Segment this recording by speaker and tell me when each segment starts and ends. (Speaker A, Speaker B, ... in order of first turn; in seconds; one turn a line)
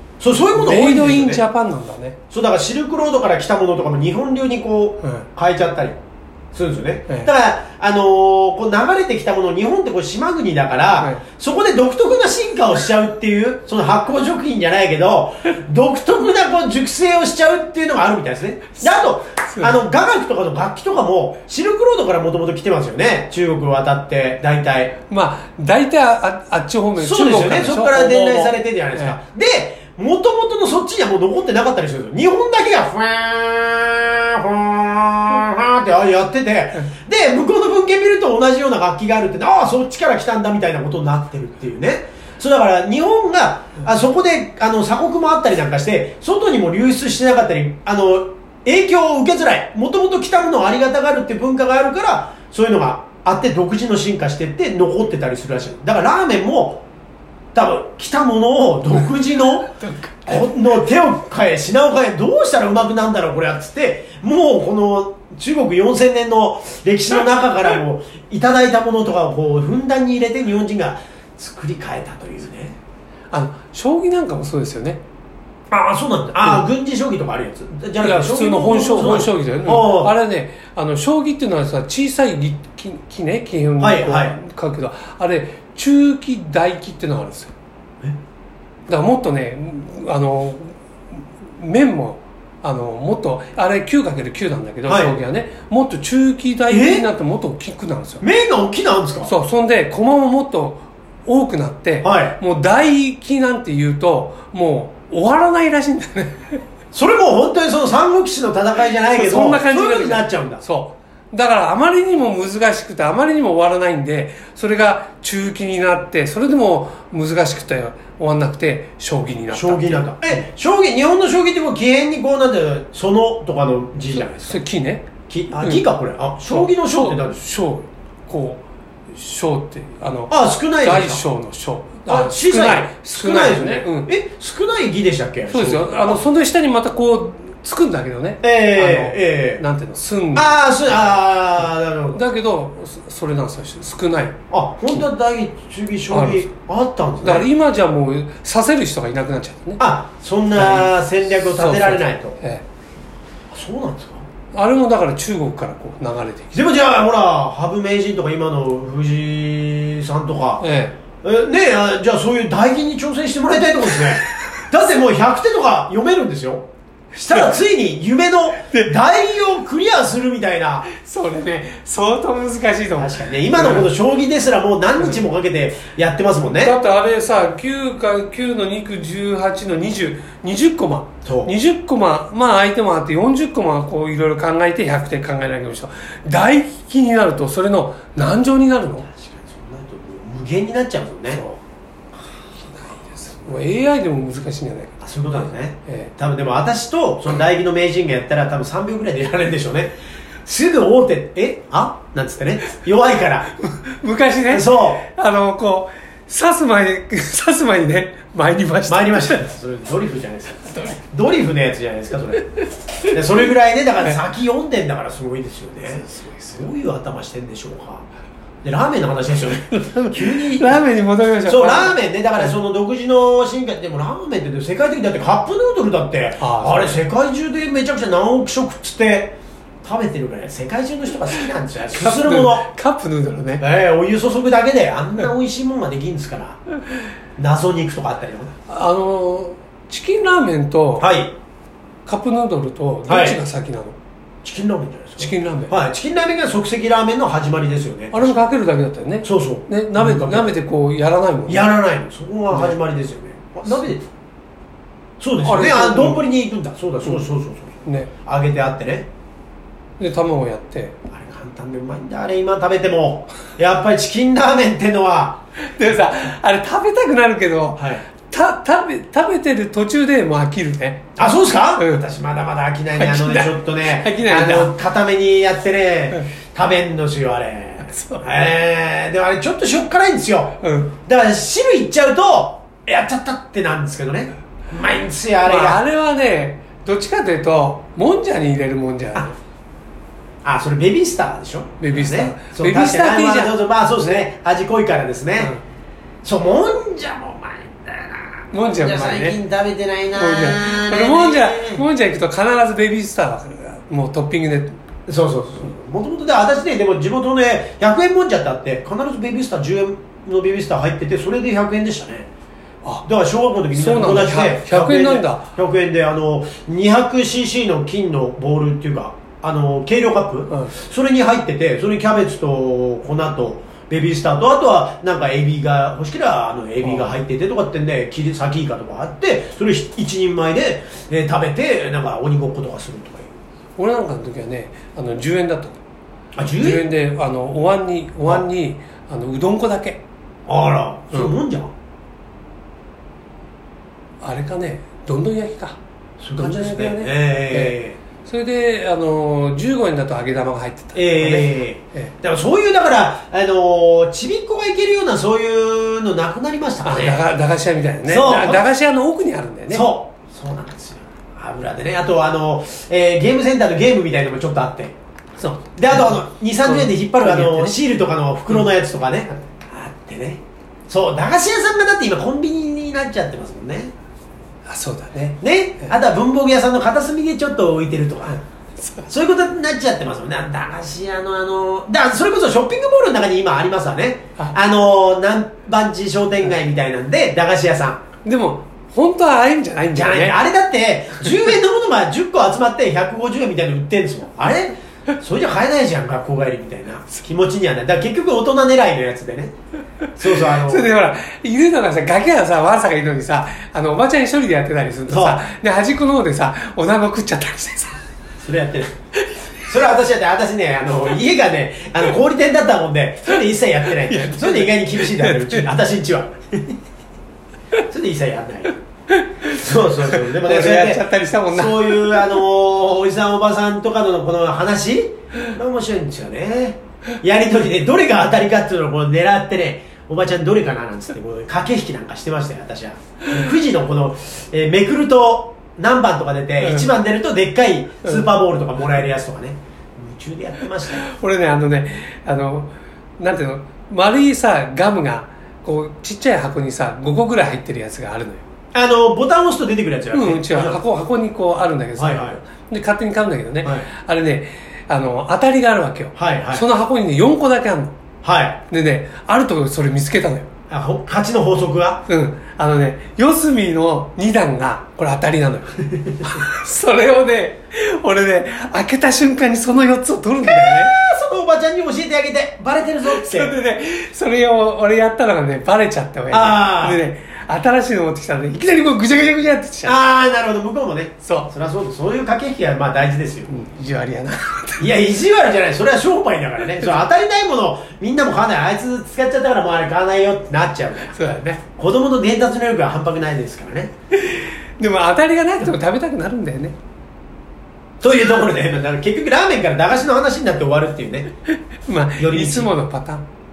Speaker A: 0.2-1.4
Speaker B: 0.5-2.2
Speaker A: 2.3-6.0
Speaker A: 6.5-24.9
Speaker B: 18.8-19.8
Speaker B: 25.1-29.1
Speaker A: 27.0-56.8
Speaker A: 57.5-72.8
Speaker B: 59.8-60.5
Speaker B: 73.3-75.0
Speaker A: 75.7-80.1
Speaker B: 78.0-87.5
Speaker A: 83.8-84.3
Speaker B: 88.9-90.8
Speaker B: 91.6-98.2
Speaker A: 94.8-95.2
Speaker A: 96.7-97.0
Speaker A: 98.2-99.3
Speaker B: 99.2-106.6
Speaker A: 102.0-102.4
Speaker A: 106.9-110.6
Speaker B: 109.1-120.2
Speaker A: 119.5-124.6
Speaker B: 124.1-125.1
Speaker A: 125.3-127.4
Speaker B: 125.6-125.9
Speaker B: 126.4-134.1
Speaker A: 130.3-131.2
Speaker A: 132.1-136.2
Speaker B: 135.5-141.2
Speaker A: 138.4-139.6
Speaker A: 140.3-142.2
Speaker B: 142.1-144.3
Speaker A: 144.5-147.5
Speaker B: 146.1-146.5
Speaker B: 147.2-149.8
Speaker A: 149.8-152.4
Speaker B: 150.5-152.6
Speaker A: 153.5-154.2
Speaker B: 154.5-156.6
Speaker A: 156.5-160.6
Speaker B: 160.6-160.9
Speaker A: 161.2-170.9
Speaker B: 170.9-173.9
Speaker A: 173.0-176.8
Speaker B: 175.0-175.2
Speaker B: 176.6-189.1
Speaker A: 181.2-181.5
Speaker A: 189.1-191.4
Speaker B: 191.3-191.6
Speaker B: 192.4-195.0
Speaker A: 195.0-203.5
Speaker B: 195.8-196.1
Speaker B: 203.6-209.4
Speaker A: 204.5-205.0
Speaker A: 208.9-218.1
Speaker B: 216.0-216.7
Speaker A: 218.6-220.8
Speaker B: 219.7-222.0
Speaker A: 221.4-232.7
Speaker B: 226.4-227.0
Speaker B: 231.9-233.6
Speaker A: 233.6-236.6
Speaker A: 237.3-238.5
Speaker B: 238.7-241.1
Speaker A: 241.0-241.3
Speaker B: 242.1-244.0
Speaker A: 243.1-243.4
Speaker A: 244.4-248.4
Speaker B: 245.2-245.7
Speaker B: 248.1-251.7
Speaker A: 249.2-250.6
Speaker A: 251.5-254.1
Speaker B: 252.5-252.8
Speaker A: 255.2-259.1
Speaker B: 255.4-256.2
Speaker B: 260.0-260.9
Speaker A: 261.1-265.4
Speaker B: 265.7-271.1
Speaker A: 267.8-268.0
Speaker A: 271.2-285.8
Speaker B: 271.8-272.0
Speaker B: 272.9-274.7
Speaker B: 277.9-278.2
Speaker B: 280.6-280.9
Speaker B: 285.4-289.3
Speaker A: 290.4-295.5
Speaker B: 291.8-294.2
Speaker A: 296.2-301.8
Speaker B: 298.5-299.4
Speaker B: 300.1-304.8
Speaker A: 305.1-312.3
Speaker A: 313.0-333.3
Speaker B: 313.7-315.4
Speaker B: 326.8-327.2
Speaker B: 333.8-335.8
Speaker A: 336.4-336.9
Speaker B: 336.6-340.0
Speaker A: 340.5-341.7
Speaker B: 341.1-341.4
Speaker B: 344.2-345.8
Speaker A: 346.2-348.0
Speaker B: 346.4-352.1
Speaker A: 350.9-357.2
Speaker B: 356.8-359.9
Speaker A: 358.0-358.6
Speaker A: 359.7-373.9
Speaker B: 365.9-367.8
Speaker B: 374.6-375.9
Speaker A: 375.4-378.4
Speaker B: 378.8-379.1
Speaker A: 379.1-388.0
Speaker B: 388.2-390.4
Speaker A: 389.9-399.5
Speaker A: 400.1-400.9
Speaker B: 400.4-408.0
Speaker A: 405.1-405.4
Speaker A: 408.4-408.9
Speaker A: 409.6-416.8
Speaker B: 414.0-415.7
Speaker A: 417.9-418.8
Speaker B: 419.1-419.5
Speaker A: 419.5-441.0
Speaker B: 420.1-422.4
Speaker B: 436.6-436.9
Speaker B: 438.0-438.3
Speaker B: 440.9-448.4
Speaker A: 448.7-450.8
Speaker B: 450.1-457.9
Speaker A: 452.0-452.4
Speaker A: 456.1-456.6
Speaker A: 458.2-458.6
Speaker B: 458.7-460.5
Speaker A: 460.7-462.0
Speaker B: 462.1-470.9
Speaker A: 470.5-473.5
Speaker B: 473.0-480.0
Speaker A: 476.3-477.0
Speaker A: 479.9-483.6
Speaker B: 481.2-481.5
Speaker B: 483.5-484.9
Speaker A: 484.8-493.9
Speaker B: 486.7-487.0
Speaker B: 491.1-491.6
Speaker B: 494.1-496.8
Speaker A: 498.0-501.3
Speaker B: 501.9-503.2
Speaker A: 502.2-502.7